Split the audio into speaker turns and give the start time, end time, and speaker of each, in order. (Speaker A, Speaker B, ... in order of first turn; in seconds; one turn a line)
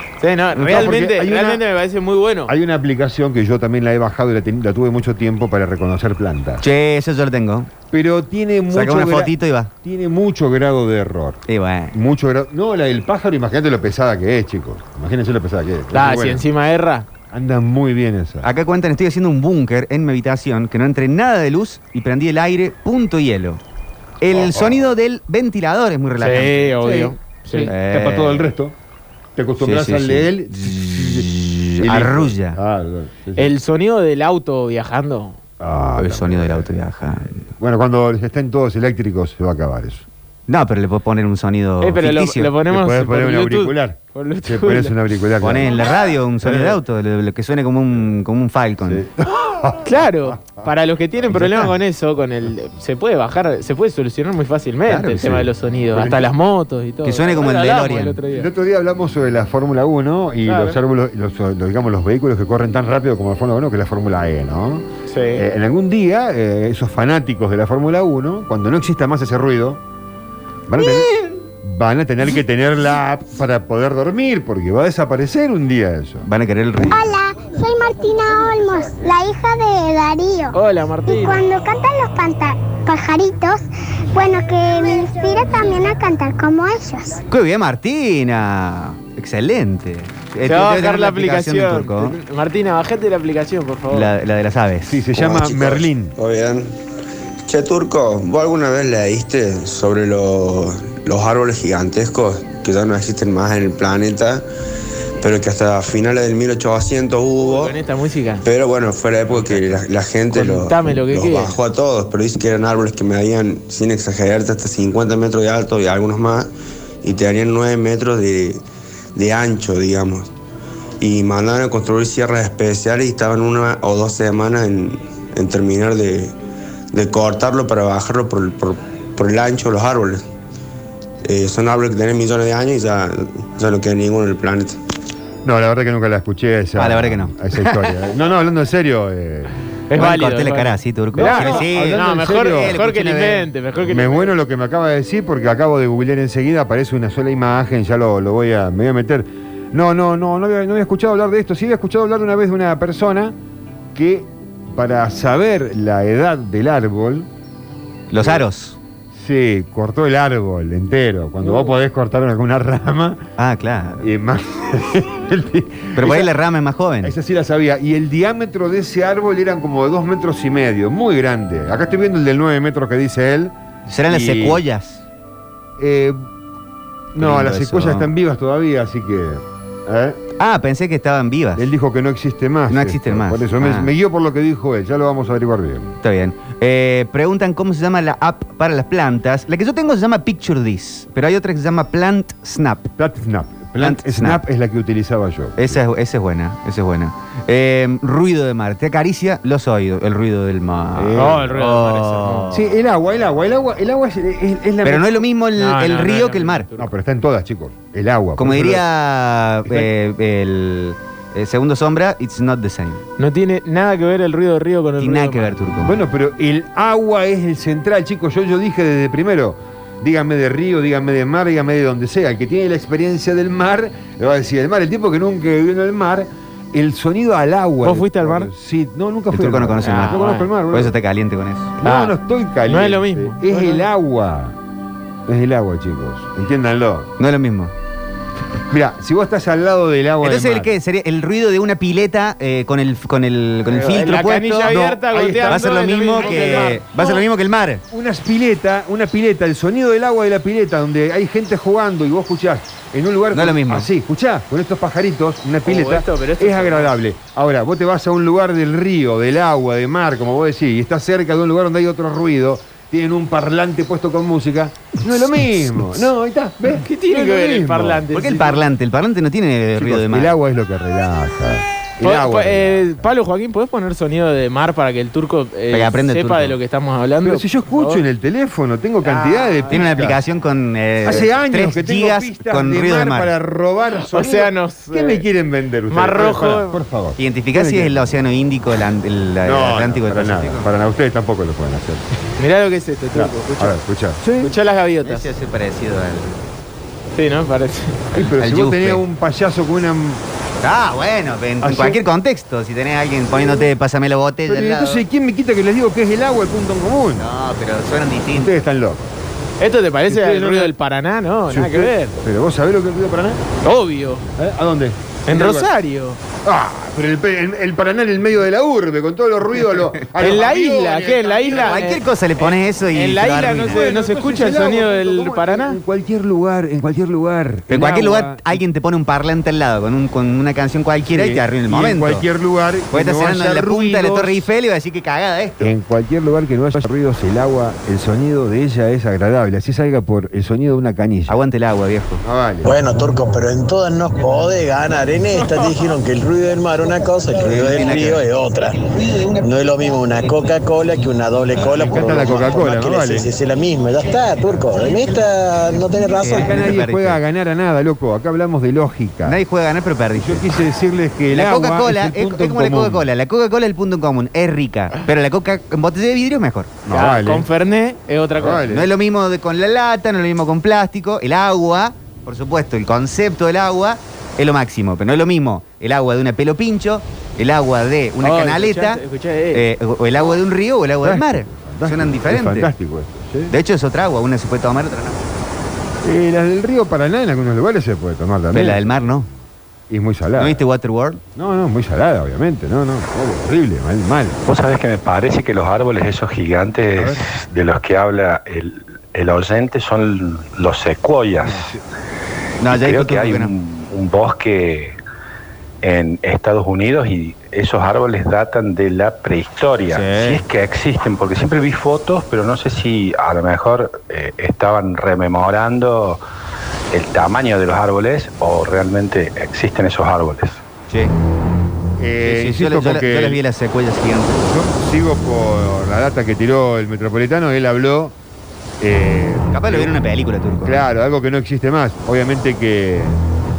Speaker A: 0.2-2.5
Speaker B: 0.6-1.6
Speaker B: 2.5-6.6
Speaker C: 6.6-7.7
Speaker B: 7.9-9.3
Speaker C: 8.7-9.7
Speaker B: 9.8-11.4
Speaker C: 11.5-11.9
Speaker B: 11.9-16.4
Speaker A: 15.9-17.1
Speaker B: 17.3-18.5
Speaker C: 18.4-23.6
Speaker C: 24.2-27.1
Speaker B: 24.3-24.9
Speaker A: 26.2-27.7
Speaker B: 26.9-28.7
Speaker C: 27.7-28.5
Speaker B: 29.4-31.3
Speaker C: 29.6-32.6
Speaker B: 31.8-33.5
Speaker A: 33.4-35.4
Speaker B: 35.6-36.7
Speaker C: 36.0-37.5
Speaker B: 37.6-40.1
Speaker C: 40.5-42.5
Speaker A: 41.8-44.9
Speaker B: 42.7-45.8
Speaker C: 45.4-49.0
Speaker B: 46.4-46.8
Speaker B: 48.9-50.6
Speaker A: 49.9-58.5
Speaker B: 51.3-51.7
Speaker C: 54.9-55.5
Speaker B: 55.9-56.3
Speaker C: 57.0-58.2
Speaker B: 58.3-64.8
Speaker A: 60.5-60.8
Speaker A: 65.1-65.4
Speaker B: 65.3-69.8
Speaker B: 70.7-76.3
Speaker C: 76.2-77.1
Speaker D: 76.8-80.6
Speaker A: 80.5-81.4
Speaker D: 81.1-83.6
Speaker D: 84.1-87.2
Speaker C: 87.3-92.2
Speaker A: 90.5-94.1
Speaker C: 93.9-95.0
Speaker B: 94.9-96.2
Speaker E: 95.2-96.7
Speaker E: 97.5-104.4
Speaker E: 105.2-107.7
Speaker A: 107.4-108.4
Speaker E: 108.4-116.5
Speaker A: 110.3-111.5
Speaker E: 117.0-118.6
Speaker E: 119.2-120.3
Speaker E: 121.0-126.3
Speaker E: 126.9-130.2
Speaker E: 131.2-134.8
Speaker B: 135.4-139.5
Speaker C: 136.8-137.9
Speaker A: 139.9-144.3
Speaker C: 139.9-143.5
Speaker B: 141.2-142.8
Speaker B: 143.9-153.3
Speaker B: 153.9-157.3
Speaker C: 158.1-158.8
Speaker B: 159.2-163.2
Speaker A: 161.4-161.7
Speaker C: 163.4-164.0
Speaker B: 164.0-166.3
Speaker C: 166.0-167.1
Speaker B: 167.0-173.5
Speaker C: 173.9-175.1
Speaker B: 174.1-174.6
Speaker B: 175.8-176.2
Speaker B: 177.2-180.2
Speaker C: 177.2-178.1
Speaker C: 180.4-181.7
Speaker B: 181.6-185.9
Speaker C: 182.7-183.9
Speaker C: 186.0-192.9
Speaker B: 193.0-195.8
Speaker C: 193.8-194.4
Speaker C: 195.6-202.7
Speaker B: 201.0-201.4
Speaker A: 201.2-202.5
Speaker B: 202.5-205.2
Speaker C: 204.8-206.7
Speaker A: 205.6-206.9
Speaker B: 206.8-208.8
Speaker C: 208.4-213.0
Speaker A: 213.2-215.5
Speaker C: 215.0-216.0
Speaker B: 215.8-230.9
Speaker A: 227.8-228.5
Speaker C: 229.3-231.7
Speaker A: 229.8-230.5
Speaker B: 231.8-234.6
Speaker A: 231.8-232.1
Speaker A: 232.7-233.9
Speaker B: 235.3-237.1
Speaker C: 237.2-237.7
Speaker B: 238.7-240.7
Speaker C: 240.2-244.8
Speaker A: 243.7-247.2
Speaker B: 244.6-246.8
Speaker C: 245.4-247.8
Speaker B: 247.9-268.0
Speaker C: 253.3-253.9
Speaker A: 255.7-256.9
Speaker A: 266.7-268.6
Speaker C: 268.1-270.3
Speaker B: 269.8-273.1
Speaker A: 272.0-278.0
Speaker C: 275.7-276.6
Speaker B: 277.2-280.2
Speaker A: 279.0-279.8
Speaker C: 279.7-283.3
Speaker B: 281.0-288.1
Speaker A: 284.1-285.2
Speaker A: 285.9-286.8
Speaker C: 287.2-290.7
Speaker B: 289.4-292.1
Speaker A: 292.4-293.8
Speaker B: 293.1-294.5
Speaker A: 294.4-295.3
Speaker C: 295.0-296.5
Speaker A: 297.1-298.1
Speaker B: 298.1-300.2
Speaker C: 298.4-299.0
Speaker C: 300.6-305.0
Speaker B: 301.6-302.0
Speaker B: 303.3-303.6
Speaker B: 304.5-307.3
Speaker C: 307.2-308.6
Speaker B: 308.4-309.1
Speaker A: 309.6-312.1
Speaker B: 310.1-310.7
Speaker B: 311.5-313.4
Speaker A: 313.6-314.2
Speaker B: 314.4-315.7
Speaker A: 315.3-316.2
Speaker B: 316.4-321.9
Speaker A: 320.2-325.8
Speaker C: 321.5-323.8
Speaker B: 323.3-328.4
Speaker C: 327.7-332.2
Speaker B: 331.1-334.5
Speaker C: 332.9-335.7
Speaker B: 335.6-341.4
Speaker C: 341.3-342.2
Speaker B: 342.2-342.7
Speaker F: 342.6-356.6
Speaker C: 347.4-348.2
Speaker B: 351.6-353.3
Speaker C: 356.2-357.2
Speaker B: 356.3-359.4
Speaker C: 359.2-360.4
Speaker B: 360.2-363.1
Speaker C: 361.3-366.7
Speaker B: 366.9-367.4
Speaker A: 366.9-368.6
Speaker B: 368.4-368.9
Speaker C: 368.7-379.0
Speaker A: 378.2-379.7
Speaker C: 379.5-382.7
Speaker B: 381.0-383.5
Speaker C: 383.5-385.2
Speaker B: 386.0-389.1
Speaker C: 388.5-389.3
Speaker B: 389.9-390.6
Speaker C: 390.4-391.2
Speaker B: 391.4-394.4
Speaker G: 394.5-401.7
Speaker B: 397.0-397.2
Speaker B: 401.4-401.8
Speaker C: 402.6-403.5
Speaker G: 402.7-405.0
Speaker G: 405.8-416.2
Speaker C: 409.9-410.4
Speaker G: 416.9-420.6
Speaker B: 422.0-423.4
Speaker C: 422.2-424.5
Speaker B: 424.3-428.1
Speaker B: 428.8-429.9
Speaker C: 429.5-430.8
Speaker B: 430.6-433.2